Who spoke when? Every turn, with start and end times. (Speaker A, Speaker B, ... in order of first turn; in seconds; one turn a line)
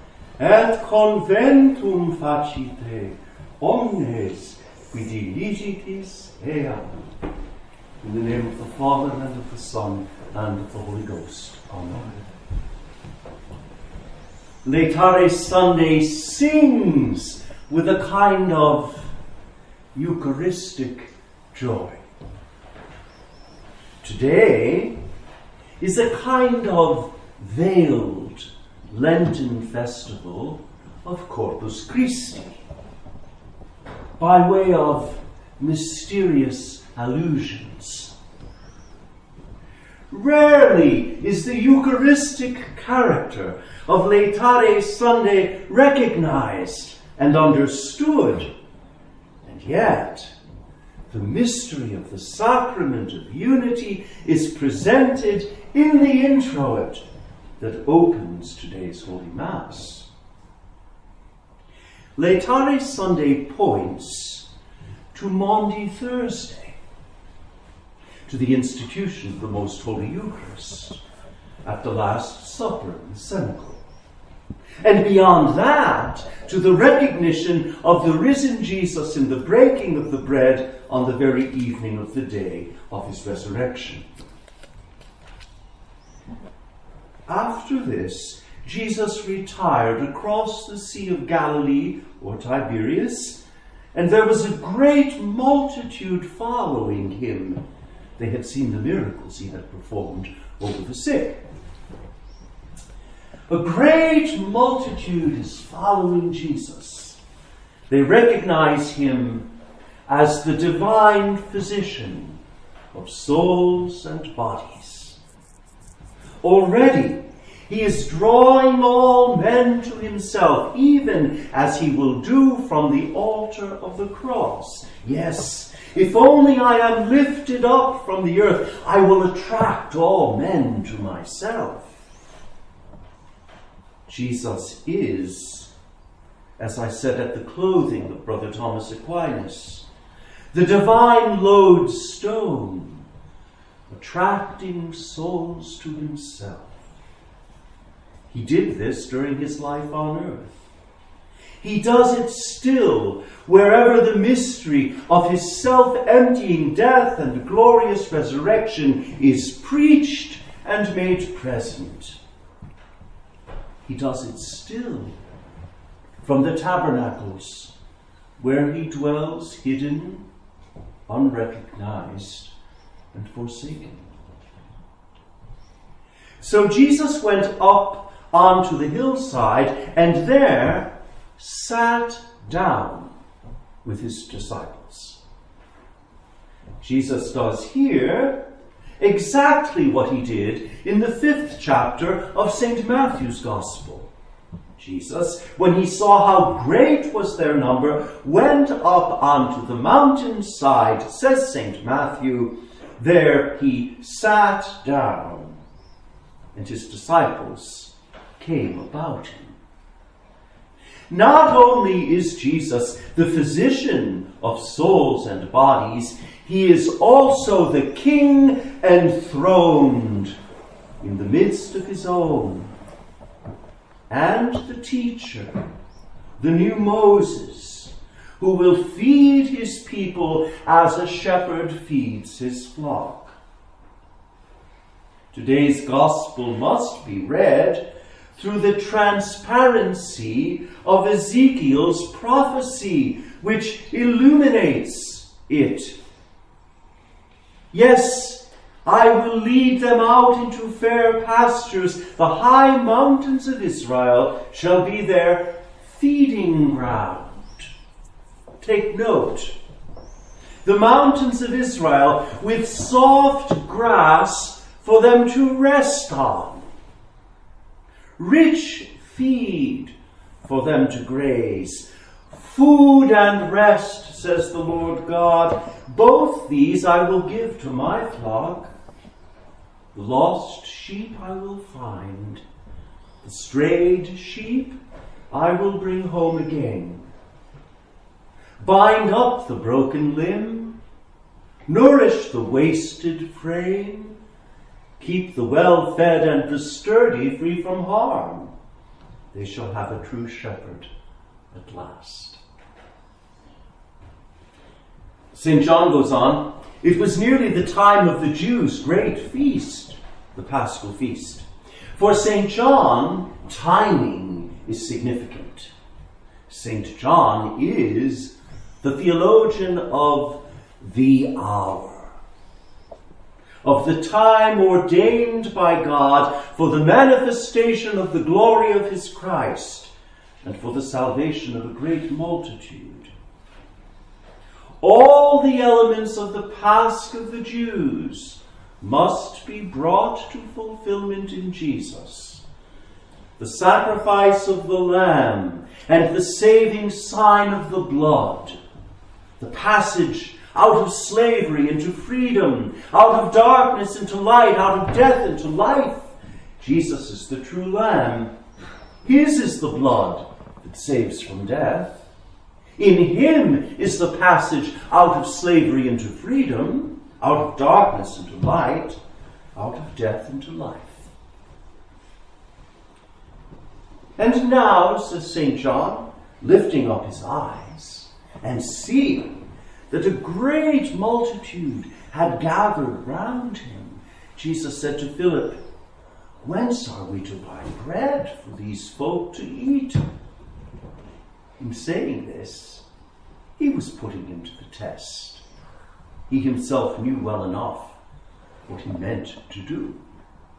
Speaker A: 0.4-7.1
Speaker A: 8.0-12.2
Speaker A: 14.6-19.1
Speaker A: 19.9-22.0
Speaker A: 24.0-25.0
Speaker A: 25.8-32.6
Speaker A: 34.2-38.1
Speaker A: 40.1-48.5
Speaker A: 49.4-50.3
Speaker A: 51.1-57.0
Speaker A: 57.6-60.1
Speaker A: 62.1-64.5
Speaker A: 65.1-66.8
Speaker A: 68.2-71.0
Speaker A: 71.6-73.8
Speaker A: 74.8-84.0
Speaker A: 87.3-93.4
Speaker A: 93.9-97.6
Speaker A: 98.2-101.4
Speaker A: 103.5-107.2
Speaker A: 107.9-109.5
Speaker A: 110.1-112.4
Speaker A: 112.9-115.2
Speaker A: 116.4-131.9
Speaker A: 134.1-135.7
Speaker A: 136.6-139.8
Speaker A: 140.5-143.1
Speaker A: 143.9-146.8
Speaker A: 148.3-150.6
Speaker A: 151.6-162.2
Speaker A: 163.8-165.1
Speaker A: 166.2-167.7
Speaker A: 168.4-170.2
Speaker A: 171.1-172.5
Speaker A: 173.1-174.1
Speaker A: 176.4-183.1
Speaker A: 183.8-185.2
Speaker A: 186.8-188.4
Speaker A: 189.0-194.1
Speaker A: 194.8-205.6
Speaker A: 206.5-209.6
Speaker A: 211.1-220.3
Speaker A: 221.0-222.7
Speaker A: 224.1-225.7
Speaker A: 226.4-233.3
Speaker A: 235.3-246.0
Speaker A: 247.7-257.7
Speaker A: 258.6-259.5
Speaker A: 260.6-266.7
Speaker A: 268.2-278.7
Speaker A: 279.9-282.4
Speaker A: 283.2-284.8
Speaker A: 285.3-287.1
Speaker A: 288.6-290.8
Speaker A: 291.7-294.1
Speaker A: 295.0-298.5
Speaker A: 299.3-300.9
Speaker A: 301.5-302.4
Speaker A: 305.3-311.4
Speaker A: 311.9-315.7
Speaker A: 316.5-322.1
Speaker A: 323.6-329.9
Speaker A: 330.4-333.1
Speaker A: 334.8-342.4
Speaker A: 343.4-348.6
Speaker A: 349.4-358.3
Speaker A: 359.0-362.0
Speaker A: 362.8-369.0
Speaker A: 369.5-371.1
Speaker A: 374.2-385.6
Speaker A: 386.4-390.0
Speaker A: 391.6-392.8
Speaker A: 393.6-395.4
Speaker A: 396.3-397.9
Speaker A: 398.6-400.0